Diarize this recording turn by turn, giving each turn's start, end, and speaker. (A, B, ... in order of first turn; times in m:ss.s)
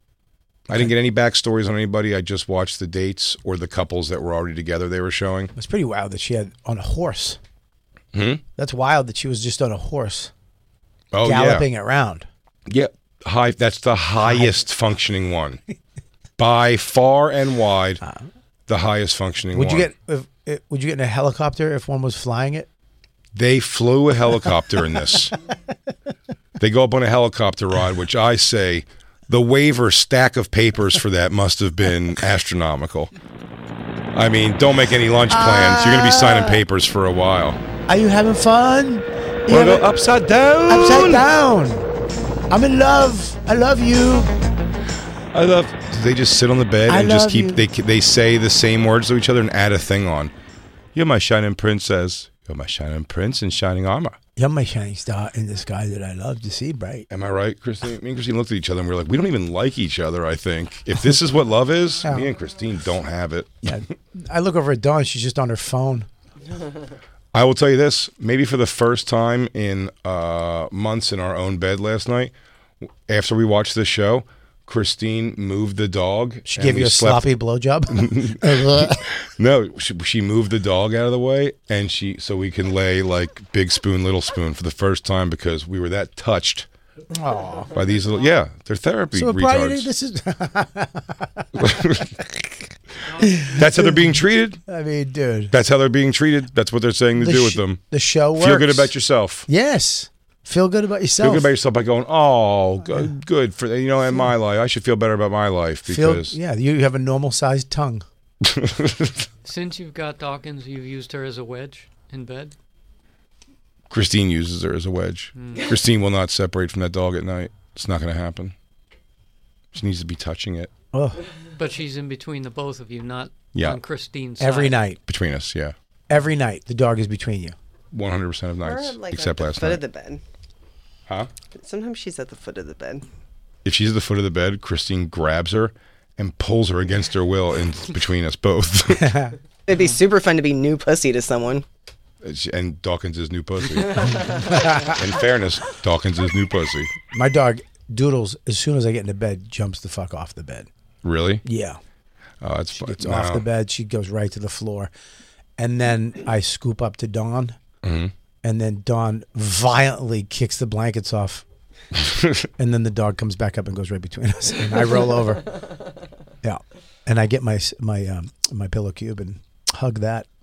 0:00.7-0:05.5 A
0:05.6-0:07.4 B
0:08.1-0:08.4 A
0:08.6-0:10.3 B
0:11.1-0:11.7 A
0:11.2-0:12.3 B
0:12.7-0:15.6 A
0:14.2-0:14.6 B
0:16.4-0:18.0 A
0:18.7-0:19.9 A
0:19.5-0:22.7 B
0:23.4-0:25.4 A
0:26.6-0:33.1 A
0:34.1-0:37.6 A
0:35.3-0:36.6 B
0:37.9-0:39.9 B
0:39.5-0:41.3 A
0:40.7-0:41.9 B
0:42.5-0:44.3 B
0:45.3-0:50.3 A
0:46.9-0:47.6 B
0:51.0-0:54.2 A
0:54.4-0:57.1 B
0:57.1-1:03.8 A
1:02.0-1:02.3 B
1:03.6-1:06.1 B
1:07.3-1:12.3 A
1:13.1-1:17.3 A
1:16.5-1:19.1 B
1:17.9-1:26.7 A
1:27.1-1:27.7 B
1:27.7-1:29.9 A
1:29.1-1:32.0 B
1:31.6-1:32.3 A
1:33.1-1:33.4 C
1:33.2-1:35.5 B
1:33.4-1:34.6 A
1:35.5-1:37.8 A
1:37.2-1:38.9 B
1:38.4-1:39.5 A
1:39.5-1:41.5 B
1:41.2-1:46.4 A
1:45.9-1:48.0 B
1:48.4-1:49.3 A
1:49.4-1:52.5 C
1:53.9-1:58.6 A
1:55.4-1:55.7 C
1:59.7-2:00.7 A
2:00.9-2:01.2 B
2:01.6-2:04.8 C
2:04.4-2:05.0 B
2:05.1-2:05.7 A
2:06.1-2:07.6 B
2:07.9-2:09.8 A
2:08.6-2:10.2 D
2:11.5-2:13.0 D
2:13.6-2:19.2 A
2:19.0-2:19.3 B
2:19.7-2:21.6 D
2:22.2-2:26.9 A
2:24.2-2:25.0 B
2:27.1-2:30.7 B
2:31.0-2:31.4 A
2:31.4-2:31.8 B
2:32.4-2:33.4 A
2:32.8-2:34.9 B
2:35.6-2:37.6 B
2:37.8-2:38.1 A
2:38.4-2:41.4 B
2:42.0-2:42.5 A
2:42.6-2:45.6 B
2:46.4-2:50.3 B